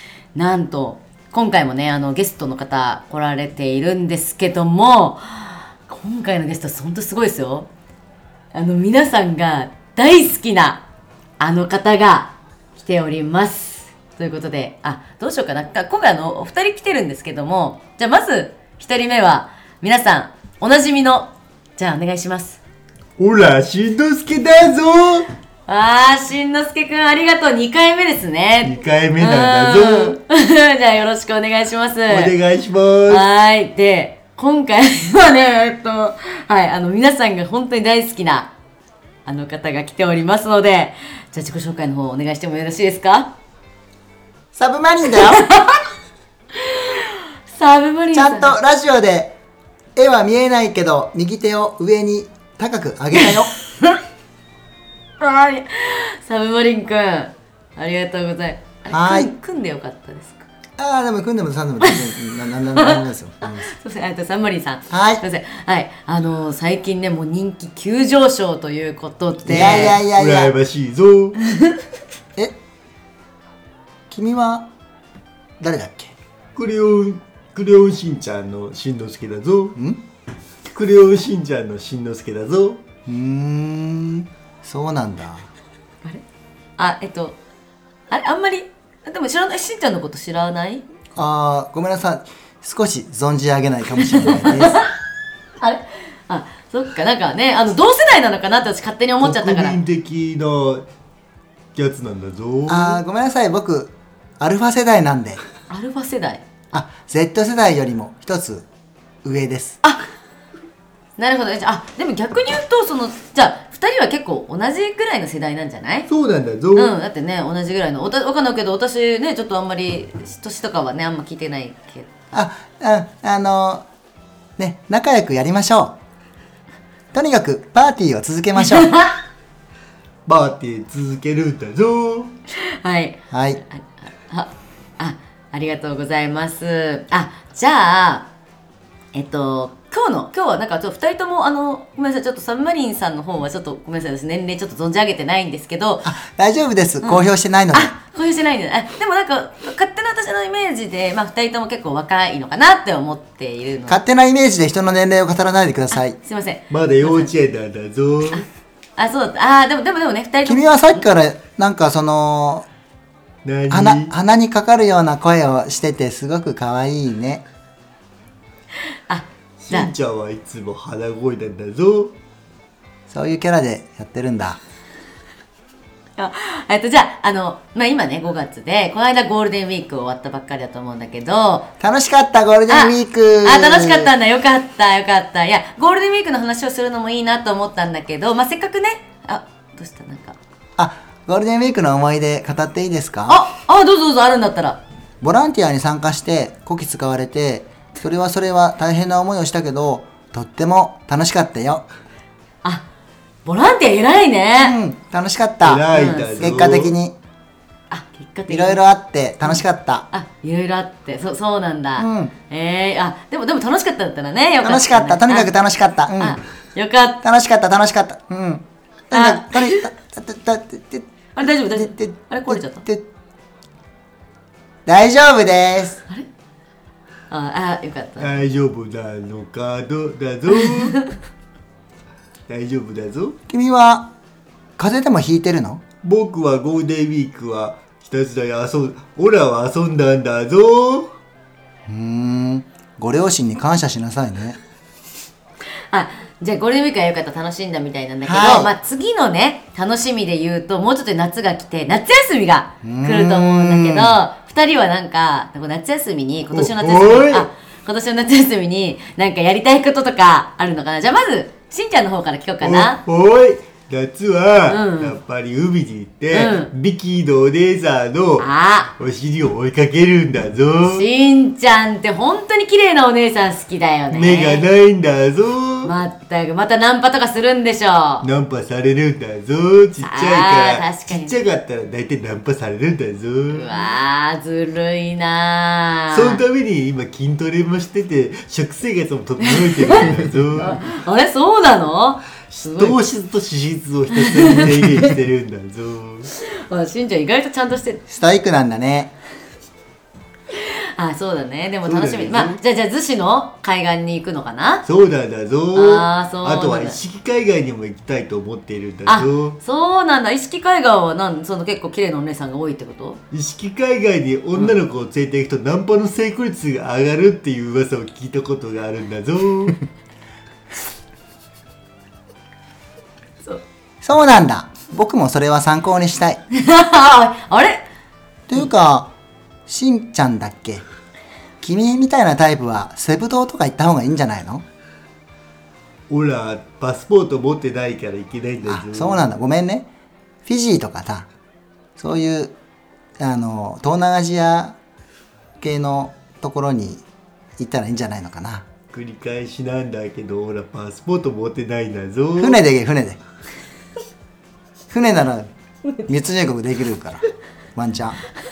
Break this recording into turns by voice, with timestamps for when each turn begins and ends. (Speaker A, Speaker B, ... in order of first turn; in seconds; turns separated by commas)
Speaker A: 0.3-7.7, Speaker A: 8.5-10.8, Speaker A: 11.4-22.6, Speaker B: 23.2-25.3, Speaker A: 25.7-32.4, Speaker B: 28.6-30.2, Speaker B: 32.1-33.3, Speaker A: 33.1-38.5, Speaker A: 39.3-43.3, Speaker C: 44.5-45.5, Speaker A: 45.2-45.8, Speaker A: 46.6-48.6, Speaker C: 48.1-49.4, Speaker C: 50.0-53.5, Speaker A: 53.2-54.0, Speaker A: 55.2-60.5, Speaker C: 58.9-59.3, Speaker C: 60.8-63.7, Speaker A: 61.8-70.0, Speaker C: 64.9-65.2, Speaker C: 69.5-70.5, Speaker B: 69.5-71.4, Speaker C: 74.1-74.7, Speaker C: 75.6-76.1, Speaker B: 76.6-79.8, Speaker C: 79.8-80.0, Speaker B: 80.7-82.8, Speaker C: 83.1-85.5, Speaker A: 86.8-87.4, Speaker A: 88.1-90.8, Speaker C: 91.2-94.8, Speaker A: 94.1-94.9, Speaker A: 95.6-99.8, Speaker B: 99.2-100.9, Speaker B: 101.8-103.0, Speaker C: 102.7-105.4, Speaker A: 105.7-106.4, Speaker C: 106.7-108.7, Speaker C: 109.2-109.8, Speaker A: 111.2-116.1, Speaker B: 116.1-117.0, Speaker A: 116.7-122.1, Speaker C: 122.3-123.9, Speaker C: 124.6-126.0, Speaker C: 127.1-129.0, Speaker A: 128.6-129.2, Speaker B: 130.3-132.3, Speaker A: 132.6-138.3, Speaker C: 133.3-133.6, Speaker A: 139.1-146.1, Speaker C: 146.1-147.9, Speaker A: 147.0-154.0, Speaker C: 153.9-156.2, Speaker A: 155.9-157.3, Speaker B: 156.7-158.4, Speaker A: 159.0-161.0, Speaker C: 160.4-162.7, Speaker B: 163.4-164.1, Speaker C: 163.7-167.4, Speaker A: 169.1-169.9, Speaker B: 169.6-172.1, Speaker C: 173.1-174.6, Speaker A: 176.2-181.7, Speaker C: 181.8-184.1, Speaker A: 182.7-190.4, Speaker C: 190.8-193.4, Speaker A: 193.3-194.8, Speaker C: 195.2-201.8, Speaker A: 203.4-204.8, Speaker C: 204.6-207.2, Speaker B: 205.6-206.9, Speaker A: 205.9-206.4, Speaker A: 207.9-208.8, Speaker C: 208.5-210.1, Speaker A: 210.1-215.5, Speaker C: 212.0-212.3, Speaker C: 214.6-216.4, Speaker A: 216.2-217.2, Speaker C: 217.2-221.1, Speaker A: 219.1-219.9, Speaker A: 221.3-222.9, Speaker C: 221.6-223.1, Speaker C: 224.9-226.0, Speaker A: 227.3-228.3, Speaker B: 228.2-231.0, Speaker A: 230.7-231.1, Speaker B: 232.5-233.4, Speaker C: 233.5-234.1, Speaker C: 234.8-235.8, Speaker B: 236.0-241.1, Speaker C: 241.9-244.6, Speaker A: 245.9-263.0, Speaker C: 248.2-248.7, Speaker C: 252.8-254.2, Speaker B: 256.5-257.5, Speaker B: 262.6-271.1, Speaker A: 264.7-265.2, Speaker A: 266.3-266.7, Speaker A: 268.4-268.9, Speaker A: 270.9-274.6, Speaker B: 274.1-275.9, Speaker A: 275.8-278.2, Speaker B: 278.2-283.7, Speaker A: 280.0-281.4, Speaker A: 283.5-286.4, Speaker B: 286.1-290.8, Speaker A: 289.4-293.0, Speaker B: 292.5-296.3, Speaker A: 294.1-295.1, Speaker A: 296.3-298.0, Speaker C: 298.1-299.1, Speaker A: 300.5-304.9, Speaker B: 301.8-302.6, Speaker B: 304.9-309.6, Speaker A: 305.8-307.0, Speaker A: 309.1-313.2, Speaker B: 313.3-319.8, Speaker C: 324.0-326.4, Speaker A: 326.5-327.8, Speaker C: 328.5-329.1, Speaker C: 329.7-330.8, Speaker C: 331.6-334.6, Speaker B: 336.1-339.3, Speaker C: 338.6-339.9, Speaker C: 340.4-341.3, Speaker C: 342.0-342.5, Speaker C: 343.2-344.8, Speaker C: 345.6-347.0, Speaker C: 347.6-348.6, Speaker B: 348.9-352.6, Speaker C: 352.4-353.2, Speaker C: 354.9-355.5, Speaker C: 356.0-358.2